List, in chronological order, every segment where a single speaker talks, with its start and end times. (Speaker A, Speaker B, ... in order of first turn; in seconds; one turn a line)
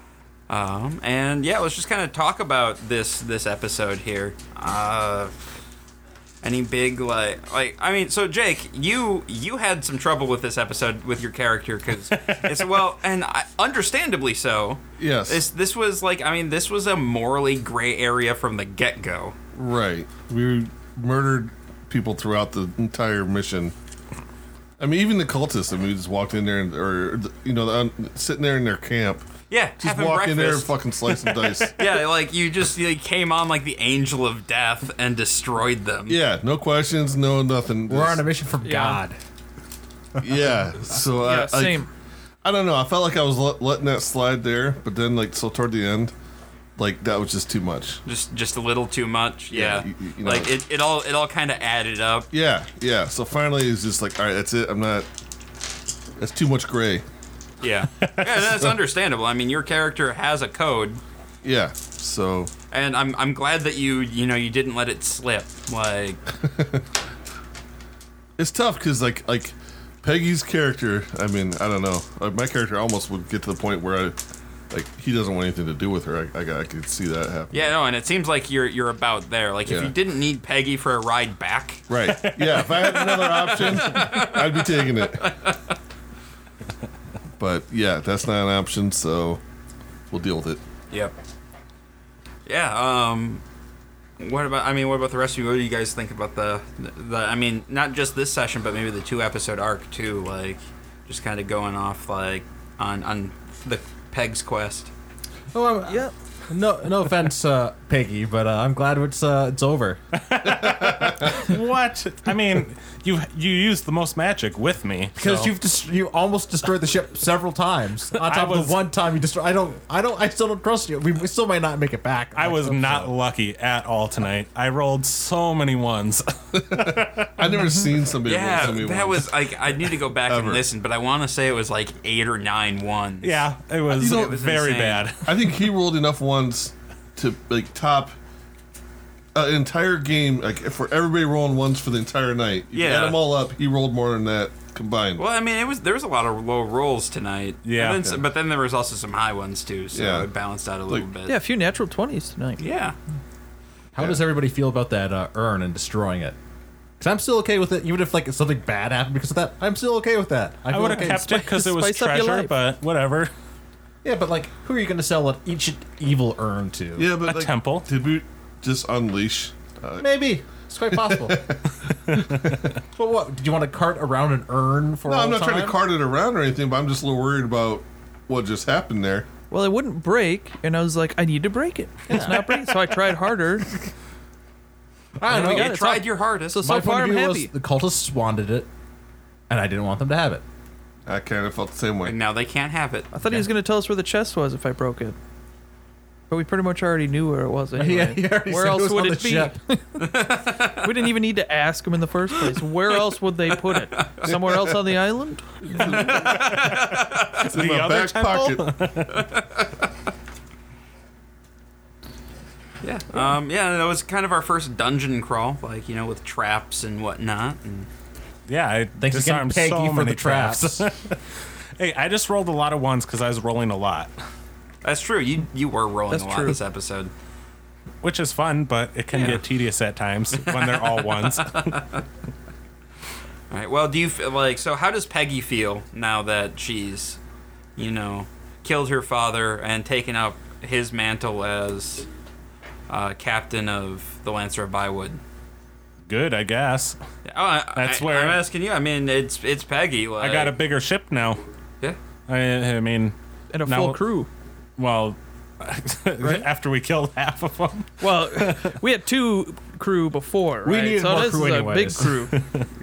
Speaker A: 0.5-5.5
Speaker A: 6.4-19.3
Speaker B: 12.1-12.6
Speaker C: 15.0-15.4
Speaker C: 19.5-23.7
Speaker C: 24.8-29.2
Speaker A: 29.5-36.2
Speaker C: 29.8-31.8
Speaker C: 36.1-38.2
Speaker D: 37.9-39.2
Speaker E: 38.6-39.0
Speaker D: 40.2-40.6
Speaker C: 40.2-41.9
Speaker E: 41.1-41.9
Speaker C: 42.4-46.1
Speaker C: 46.8-48.0
Speaker A: 48.0-52.3
Speaker C: 49.5-50.6
Speaker C: 52.3-55.1
Speaker C: 56.2-57.0
Speaker A: 57.6-61.0
Speaker B: 57.9-58.4
Speaker C: 61.4-62.5
Speaker A: 62.7-66.2
Speaker C: 66.5-66.8
Speaker C: 68.4-74.2
Speaker C: 74.7-77.7
Speaker A: 77.5-81.8
Speaker C: 79.7-79.9
Speaker C: 81.9-85.3
Speaker B: 82.0-84.1
Speaker A: 83.5-85.7
Speaker C: 87.4-89.4
Speaker C: 90.1-90.6
Speaker A: 92.5-93.4
Speaker A: 94.2-104.9
Speaker D: 105.5-110.0
Speaker B: 110.1-115.5
Speaker C: 110.4-111.4
Speaker D: 115.1-123.1
Speaker B: 118.1-118.8
Speaker B: 122.3-127.3
Speaker C: 126.6-129.3
Speaker A: 128.2-135.1
Speaker C: 130.2-130.6
Speaker B: 133.2-135.4
Speaker C: 134.0-134.4
Speaker C: 135.2-138.1
Speaker C: 139.3-145.2
Speaker A: 142.7-143.2
Speaker A: 145.2-151.3
Speaker B: 147.6-148.0
Speaker C: 149.9-150.3
Speaker E: 151.2-152.6
Speaker A: 152.6-152.9
Speaker D: 153.9-156.3
Speaker C: 154.0-154.2
Speaker D: 157.0-161.5
Speaker B: 160.7-163.3
Speaker E: 161.2-162.5
Speaker D: 164.0-167.1
Speaker C: 167.0-170.1
Speaker B: 167.2-167.9
Speaker D: 170.0-171.4
Speaker C: 170.9-172.7
Speaker D: 172.6-175.8
Speaker C: 175.0-179.3
Speaker E: 179.5-183.7
Speaker D: 182.1-182.7
Speaker D: 185.2-185.8
Speaker A: 185.3-186.6
Speaker E: 185.3-187.5
Speaker D: 186.6-188.7
Speaker D: 189.5-190.4
Speaker C: 191.1-192.2
Speaker A: 192.0-193.1
Speaker E: 193.1-195.2
Speaker E: 196.3-206.1
Speaker D: 197.8-199.6
Speaker A: 200.0-200.9
Speaker A: 203.7-204.2
Speaker C: 204.2-205.0
Speaker C: 205.6-206.8
Speaker A: 205.7-207.4
Speaker C: 207.4-208.7
Speaker B: 207.4-209.2
Speaker A: 209.1-209.7
Speaker A: 212.8-217.9
Speaker B: 218.5-221.2
Speaker D: 219.0-220.9
Speaker B: 221.8-224.1
Speaker A: 224.8-227.1
Speaker E: 226.1-226.6
Speaker B: 228.0-231.8
Speaker A: 229.1-229.4
Speaker A: 230.4-232.0
Speaker A: 233.5-237.2
Speaker A: 237.8-242.1
Speaker A: 242.9-245.2
Speaker B: 246.1-247.0
Speaker A: 247.2-250.6
Speaker B: 247.7-248.4
Speaker B: 250.2-251.4
Speaker B: 252.3-254.1
Speaker E: 253.5-254.3
Speaker B: 254.8-258.7
Speaker E: 256.2-256.5
Speaker E: 258.0-262.4
Speaker D: 260.6-262.2
Speaker B: 262.0-262.7